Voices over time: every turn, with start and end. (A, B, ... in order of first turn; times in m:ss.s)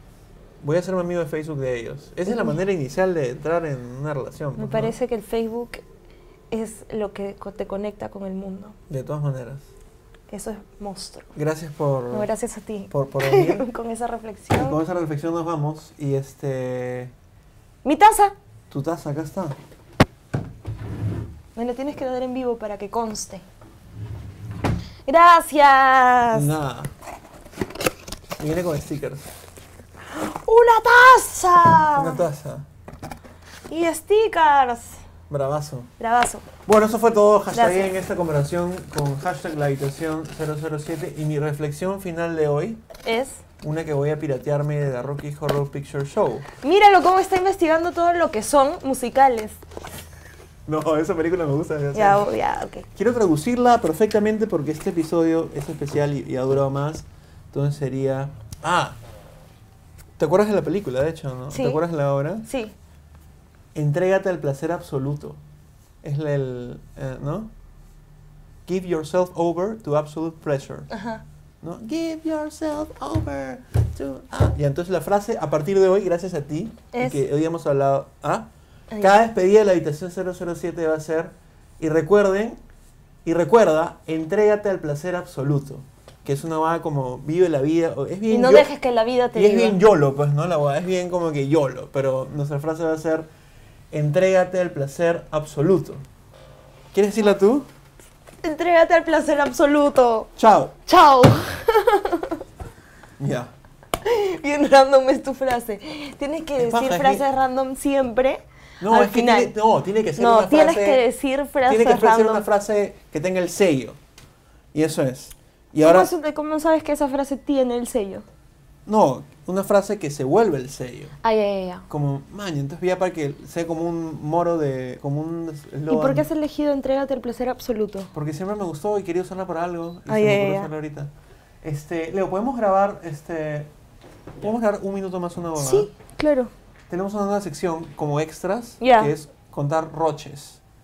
0:00.6-0:05.0 A
0:02.3-0:02.6 B
0:04.6-0:05.8 B
0:06.5-0:08.8 B
0:08.9-0:09.7 A
0:10.3-0:11.3 B
0:11.3-0:12.3 A
0:12.1-0:14.8 B
0:12.9-0:13.7 A
0:14.5-0:17.1 A
0:17.8-0:18.3 B
0:18.7-0:19.6 A
0:21.6-0:23.4 B
0:25.0-0:26.6 B
0:26.3-0:26.9 A
0:28.4-0:29.3 A
0:30.1-0:32.2 B
0:31.9-0:32.7 A
0:33.7-0:35.0 B
0:35.3-0:35.9 A
0:36.0-0:36.4 B
0:36.6-0:42.8 A
0:37.5-0:37.9 B
0:43.0-0:43.4 B
0:43.6-0:46.5 A
0:46.6-0:49.6 B
0:50.6-0:52.3 A
0:51.9-0:52.9 B
0:52.9-0:59.0 A
1:00.2-1:02.4 A
1:01.5-1:01.8 B
1:02.4-1:02.7 B
1:03.7-1:05.4 A
1:06.0-1:07.5 A
1:08.6-1:10.9 A
1:10.9-1:11.2 B
1:11.6-1:22.6 A
1:16.9-1:17.2 B
1:23.2-1:28.7 A
1:28.3-1:29.8 B
1:29.3-1:33.3 A
1:33.9-1:36.0 A
1:36.9-1:37.7 A
1:38.4-1:40.3 B
1:40.4-1:40.7 A
1:40.8-1:42.4 B
1:43.2-1:43.5 A
1:44.0-1:49.5 B
1:46.6-1:47.2 A
1:48.8-1:51.0 A
1:50.2-1:52.4 B
1:51.6-1:54.0 A
1:54.7-1:56.1 A
1:55.8-1:58.2 B
1:58.8-2:01.1 A
2:01.2-2:01.8 B
2:01.9-2:06.3 A
2:05.9-2:08.1 B
2:08.1-2:11.1 A
2:10.1-2:10.7 B
2:11.6-2:13.7 A
2:14.4-2:15.9 A
2:15.6-2:16.5 B
2:16.9-2:20.6 A
2:18.8-2:19.1 B